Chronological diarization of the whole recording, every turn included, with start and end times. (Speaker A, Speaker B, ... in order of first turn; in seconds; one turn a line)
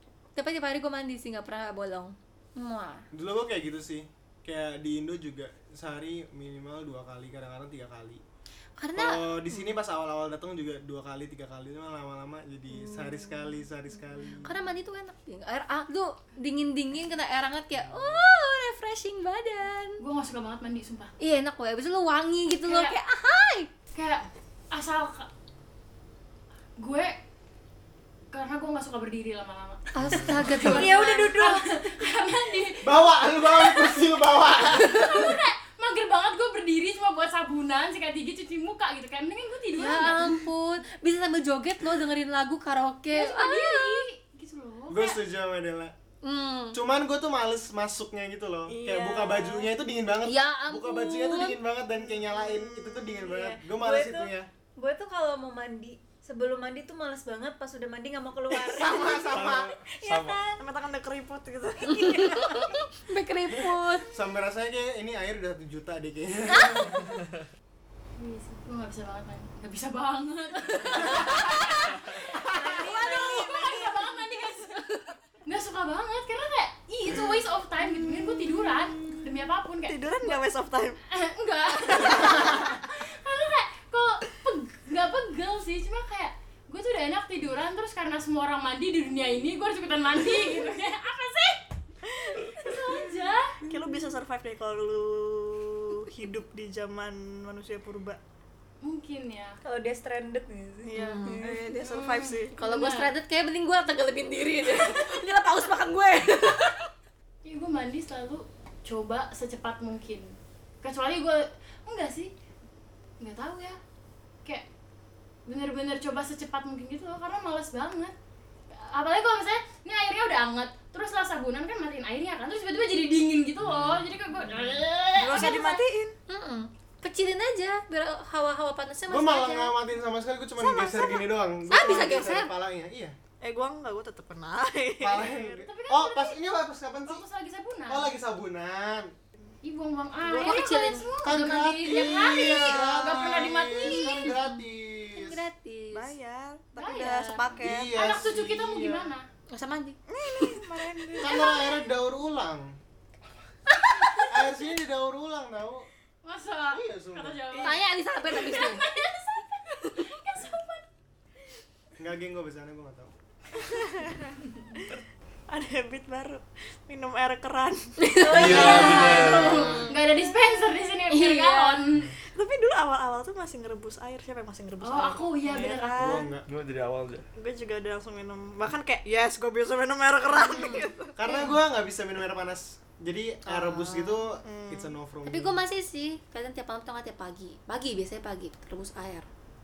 Speaker A: 0.4-3.0
Speaker B: 3.1-8.2
Speaker A: 8.8-9.7
Speaker B: 8.9-14.6
Speaker A: 12.8-13.2
Speaker A: 14.3-20.0
Speaker B: 17.8-18.2
Speaker C: 20.0-21.1
Speaker A: 21.2-23.7
Speaker C: 22.6-22.9
Speaker C: 23.9-25.3
Speaker C: 26.8-27.1
Speaker C: 28.3-40.5
Speaker A: 29.9-31.4
Speaker D: 30.6-31.6
Speaker B: 32.8-35.4
Speaker A: 39.8-44.1
Speaker C: 43.1-45.2
Speaker B: 44.9-45.9
Speaker A: 46.2-46.8
Speaker B: 46.7-54.5
Speaker E: 48.7-49.7
Speaker A: 50.2-51.6
Speaker E: 52.0-53.6
Speaker D: 53.6-60.6
Speaker B: 58.5-59.8
Speaker F: 59.3-60.5
Speaker E: 60.6-62.9
Speaker A: 61.9-64.1
Speaker B: 64.1-67.1
Speaker A: 66.5-67.0
Speaker C: 68.2-74.8
Speaker A: 70.7-74.1
Speaker D: 72.5-74.0
Speaker A: 74.8-75.1
Speaker C: 75.5-80.4
Speaker E: 77.9-79.2
Speaker E: 79.9-81.0
Speaker C: 81.1-91.6
Speaker E: 81.7-82.7
Speaker C: 92.4-93.6
Speaker E: 93.6-98.2
Speaker C: 98.8-99.6
Speaker D: 99.6-101.5
Speaker E: 100.9-102.5
Speaker A: 100.9-101.5
Speaker C: 101.8-103.1
Speaker A: 102.5-106.9
Speaker C: 107.4-112.3
Speaker C: 113.2-113.8
Speaker C: 115.5-118.1
Speaker C: 118.7-125.8
Speaker B: 123.6-124.1
Speaker E: 125.2-126.1
Speaker A: 126.3-129.8
Speaker B: 129.1-133.2
Speaker A: 130.6-132.5
Speaker E: 133.4-135.6
Speaker B: 135.0-137.2
Speaker C: 135.6-136.4
Speaker C: 137.1-138.1
Speaker B: 137.9-139.1
Speaker C: 139.6-144.4
Speaker E: 140.2-140.8
Speaker A: 140.4-141.1
Speaker B: 141.2-145.4
Speaker A: 142.1-142.9
Speaker A: 143.8-144.6
Speaker A: 145.1-146.1
Speaker E: 145.9-148.1
Speaker C: 146.8-149.3
Speaker B: 147.6-149.1
Speaker A: 149.5-150.6
Speaker E: 150.1-151.5
Speaker B: 151.2-152.8
Speaker C: 151.2-151.7
Speaker A: 153.8-154.3
Speaker B: 154.1-155.9
Speaker C: 156.2-160.8
Speaker B: 156.7-157.6
Speaker A: 157.6-158.9
Speaker B: 162.0-163.1
Speaker E: 163.6-164.2
Speaker E: 165.5-168.0
Speaker A: 168.0-169.0
Speaker D: 168.2-169.5
Speaker F: 168.3-169.8
Speaker C: 168.3-172.1
Speaker A: 169.6-170.1
Speaker A: 171.1-171.9
Speaker E: 172.3-176.3
Speaker C: 174.8-176.3
Speaker B: 175.9-176.5
Speaker F: 176.4-177.3
Speaker E: 177.3-181.5
Speaker B: 181.2-185.6
Speaker E: 183.5-184.9
Speaker A: 185.2-189.3